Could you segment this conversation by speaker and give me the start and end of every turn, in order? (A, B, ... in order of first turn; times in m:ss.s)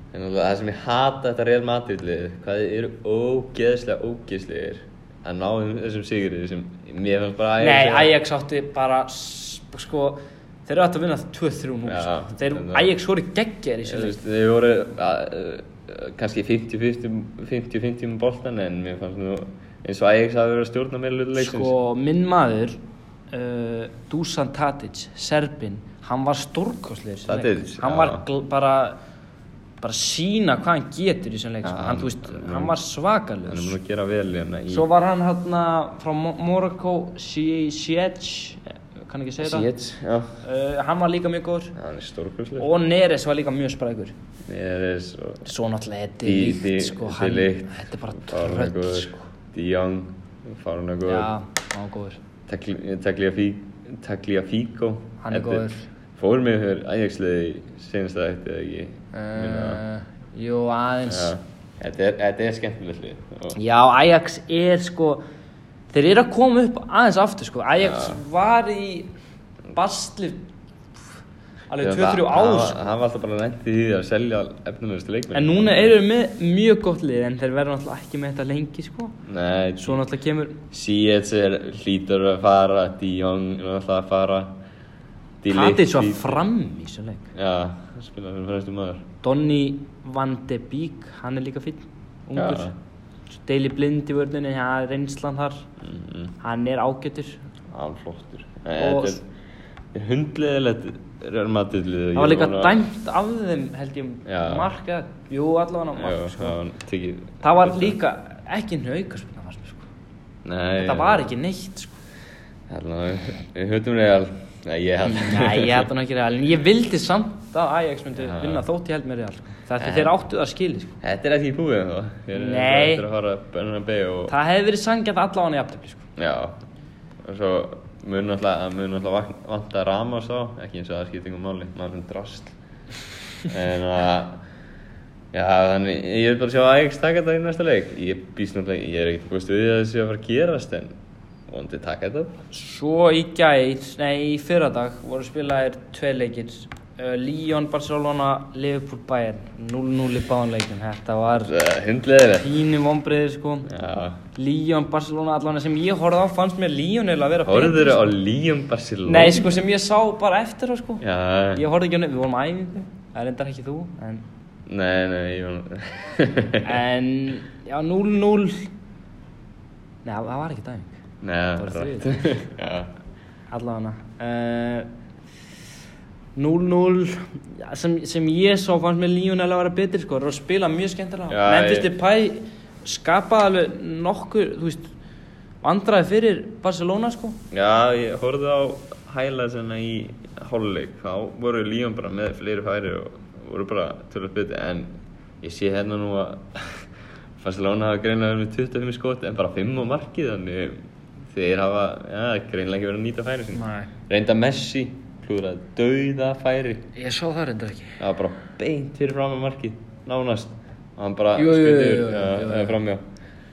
0:00.1-0:08.1 A
0:07.6-0:14.2 B
0:11.9-0:12.9 A
0:13.8-0:21.7 A
0:21.4-0:29.0 B
0:27.3-0:28.2 A
0:29.8-0:33.8 B
0:31.6-0:32.7 A
0:33.5-0:34.9 A
0:34.7-0:39.7 B
0:39.4-0:40.4 A
0:40.4-0:41.7 B
0:41.8-0:42.7 A
0:42.6-0:44.1 B
0:44.4-0:45.4 A
0:45.4-0:49.2 B
0:46.2-0:51.3 A
0:51.1-0:52.2 B
0:52.5-0:59.8 A
0:55.2-0:55.9 B
0:59.1-1:01.3 B
1:01.1-1:03.6 A
1:03.6-1:05.2 B
1:05.9-1:09.1 B
1:07.8-1:08.2 A
1:09.7-1:10.4 B
1:11.7-1:12.8 B
1:11.8-1:16.0 A
1:15.3-1:19.2 B
1:19.2-1:20.0 A
1:19.8-1:20.6 B
1:20.7-1:24.6 A
1:25.4-1:26.4 A
1:25.5-1:27.3 B
1:27.3-1:29.0 A
1:29.2-1:32.7 B
1:32.4-1:32.8 A
1:33.4-1:35.7 B
1:35.8-1:36.3 A
1:36.4-1:37.4 B
1:37.7-1:39.2 A
1:38.8-1:39.2 B
1:39.9-1:42.8 A
1:42.1-1:46.6 B
1:44.2-1:44.7 A
1:46.0-1:48.0 A
1:47.4-1:49.9 B
1:50.4-1:51.3 A
1:50.8-1:51.9 B
1:52.7-1:55.9 A
1:55.0-2:01.0 B
1:58.2-1:58.6 A
1:59.8-2:00.1 A
2:01.0-2:04.3 A
2:02.3-2:03.0 B
2:04.3-2:06.0 B
2:06.2-2:06.6 A
2:07.2-2:12.5 A
2:13.4-2:14.4 A
2:15.3-2:20.9 A
2:21.5-2:22.4 A
2:22.5-2:31.5 B
2:31.4-2:32.5 A
2:32.4-2:33.7 B
2:33.7-2:34.2 A
2:34.4-2:38.0 B
2:37.4-2:39.6 A
2:39.0-2:44.2 B
2:41.0-2:41.6 A
2:44.7-2:46.8 A
2:46.6-2:48.7 B
2:50.0-2:50.9 B
2:51.2-2:52.9 A
2:51.6-2:52.2 B
2:53.5-2:54.9 B
2:56.4-3:04.9 B
3:01.3-3:01.9 A
3:05.6-3:07.4 B
3:07.5-3:14.9 A
3:15.4-3:16.8 A
3:17.4-3:20.8 A
3:21.3-3:26.9 A
3:23.5-3:23.9 B
3:27.0-3:28.0 B
3:28.0-3:33.0 A
3:31.4-3:32.8 B